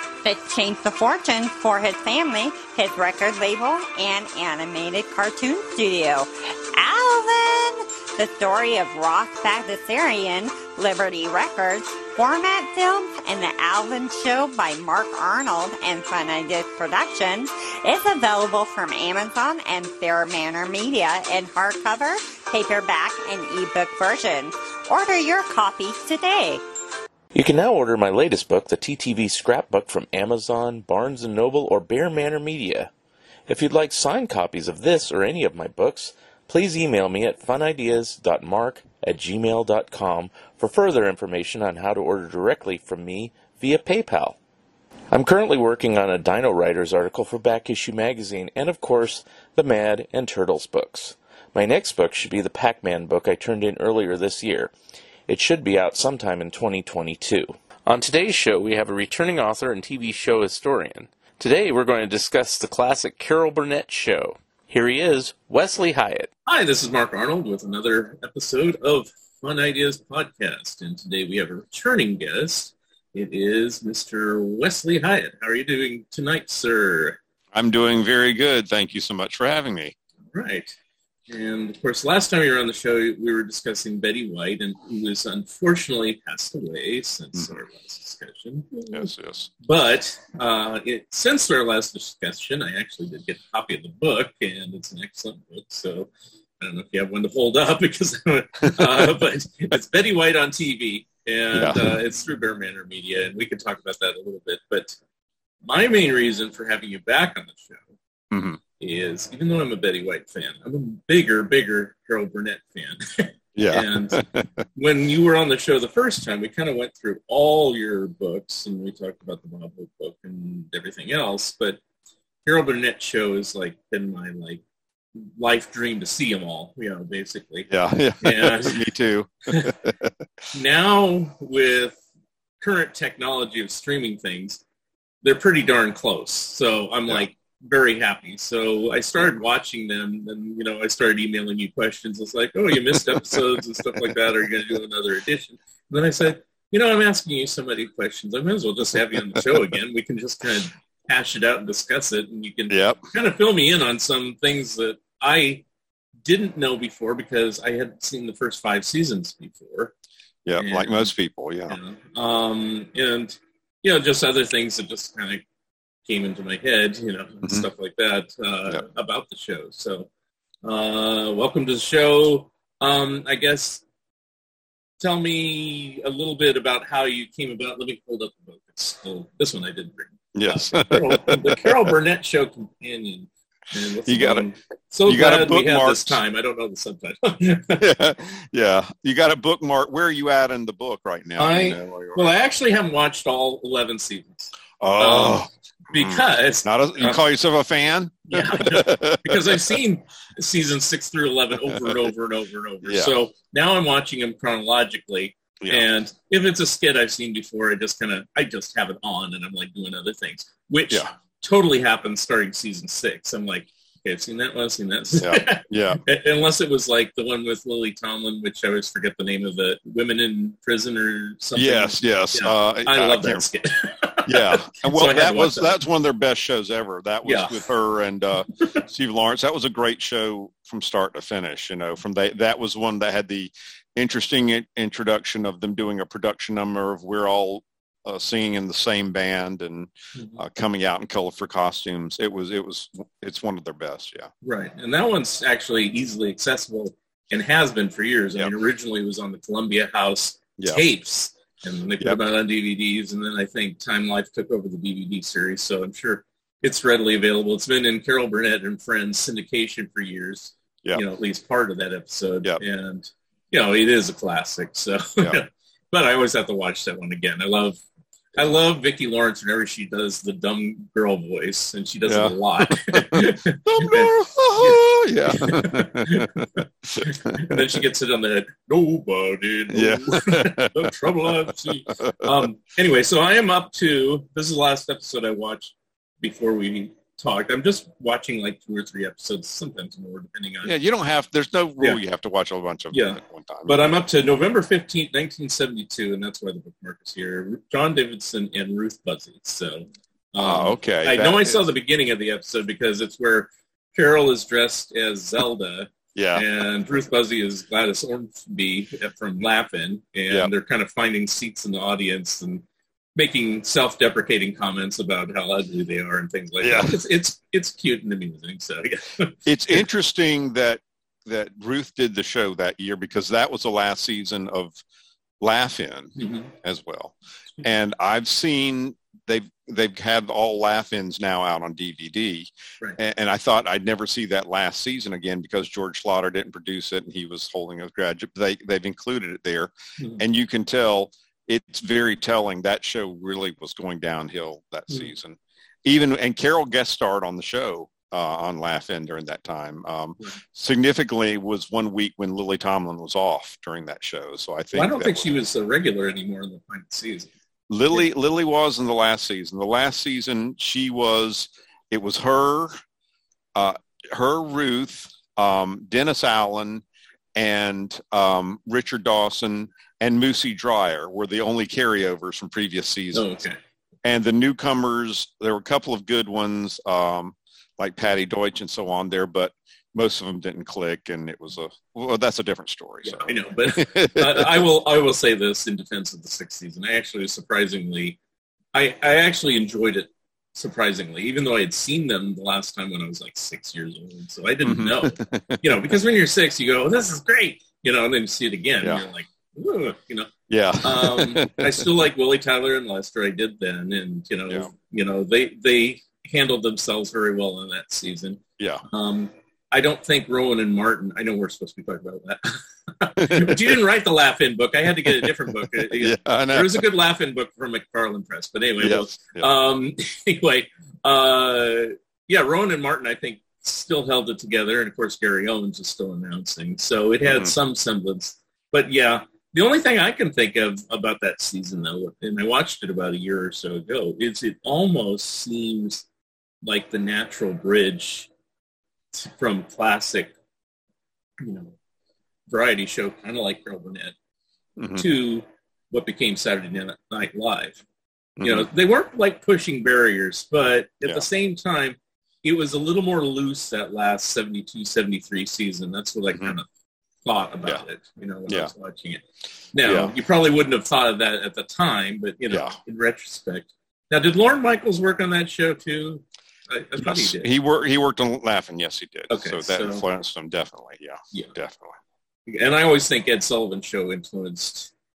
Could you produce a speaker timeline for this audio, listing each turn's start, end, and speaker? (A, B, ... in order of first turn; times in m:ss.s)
0:00.2-0:26.6 A
0:27.3-0:32.9 B
0:33.5-0:44.4 B
0:45.1-0:54.7 B
0:55.3-1:06.3 B
1:06.4-1:17.2 C
1:17.5-1:20.0 D
1:20.3-1:20.7 C
1:21.3-1:29.1 C
1:28.9-1:29.5 D
1:29.6-1:36.1 C
1:36.6-1:45.0 C
1:41.5-1:42.0 D
1:45.6-1:47.8 C
1:48.3-1:48.6 D
1:48.8-2:01.8 C
1:53.6-1:54.4 D
2:02.4-2:04.6 C
2:05.2-2:07.7 C
2:07.7-2:10.1 D
2:08.2-2:08.9 C
2:09.5-2:09.8 C
2:10.5-2:12.0 C
2:12.6-2:14.6 C
2:15.2-2:35.6 C
2:22.9-2:24.2 D
2:32.7-2:33.0 D
2:36.2-2:39.9 C
2:40.4-2:41.8 D
2:40.6-2:41.1 C
2:41.7-2:45.4 C
2:46.0-2:50.1 C
2:50.6-2:53.8 C
2:55.0-3:07.9 C
3:00.3-3:01.9 D
3:04.1-3:04.4 D
3:05.0-3:06.2 D
3:07.8-3:12.3 D
3:11.4-3:17.2 C
3:14.8-3:19.8 D
3:18.3-3:45.7 C
3:21.7-3:22.1 D
3:22.8-3:23.1 D
3:25.6-3:25.9 D
3:35.2-3:36.0 D
3:41.6-3:43.4 D
3:44.2-4:04.3 D
3:47.2-3:47.7 C
4:04.4-4:27.8 C
4:10.6-4:10.8 D
4:28.3-4:50.7 C
4:32.1-4:37.8 D
4:39.7-4:42.4 D
4:50.6-4:53.8 D
4:52.9-5:12.6 C
5:00.4-5:01.6 D
5:06.1-5:06.5 D
5:13.2-5:19.8 C
5:16.6-5:17.0 D
5:19.4-5:24.8 D
5:25.4-5:55.3 D
5:26.2-5:26.5 C
5:54.7-5:57.3 C
5:57.7-6:02.7 D
6:03.5-6:06.8 D
6:07.3-6:13.3 D
6:13.1-6:13.6 C
6:14.0-6:24.6 D
6:23.0-6:28.2 C
6:28.7-7:16.0 C
6:34.6-6:35.8 D
6:40.5-6:41.8 D
6:48.6-6:48.8 D
6:53.2-6:53.8 D
6:55.0-6:56.8 D
6:58.8-6:59.5 D
7:07.2-7:07.5 D
7:16.6-7:18.3 C
7:19.1-7:20.3 C
7:21.4-7:21.8 C
7:22.5-7:24.1 C
7:24.8-7:25.0 D
7:25.0-7:27.8 C
7:28.4-7:28.7 D
7:28.4-7:36.7 C
7:37.2-7:39.2 C
7:39.7-7:47.5 C
7:39.8-7:40.1 D
7:42.5-7:42.8 D
7:47.0-7:52.0 D
7:49.3-7:50.0 C
7:52.5-7:54.9 C